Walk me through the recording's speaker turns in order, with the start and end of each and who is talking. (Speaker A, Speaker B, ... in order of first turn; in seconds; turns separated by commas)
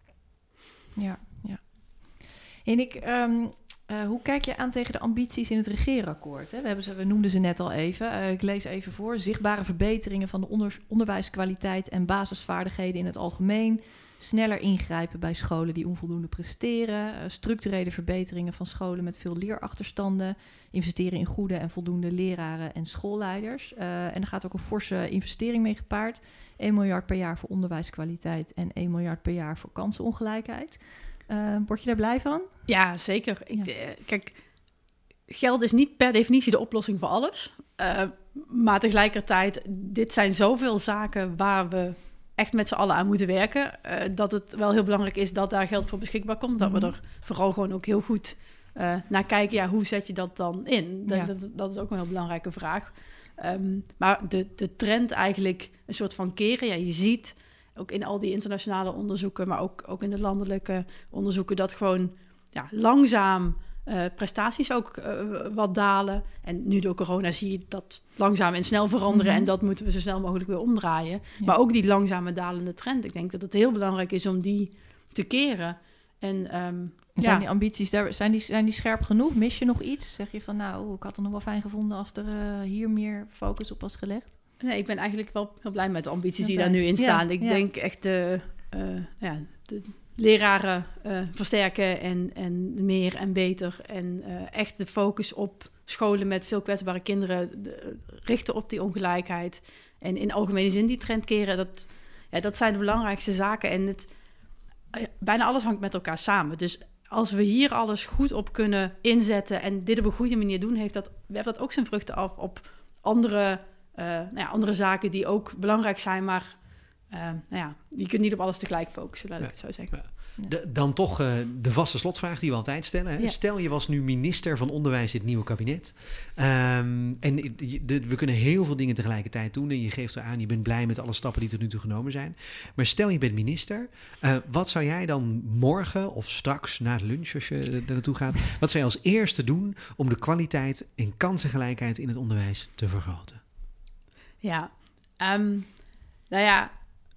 Speaker A: 0.9-32.5, Speaker B: 32.7-34.4, Speaker B: 35.3-77.5, Speaker A: 46.6-46.9, Speaker A: 69.1-69.5, Speaker A: 77.2-84.3, Speaker B: 84.6-104.1, Speaker A: 86.4-87.6, Speaker B: 104.9-120.1, Speaker C: 119.4-143.4, Speaker B: 144.4-146.8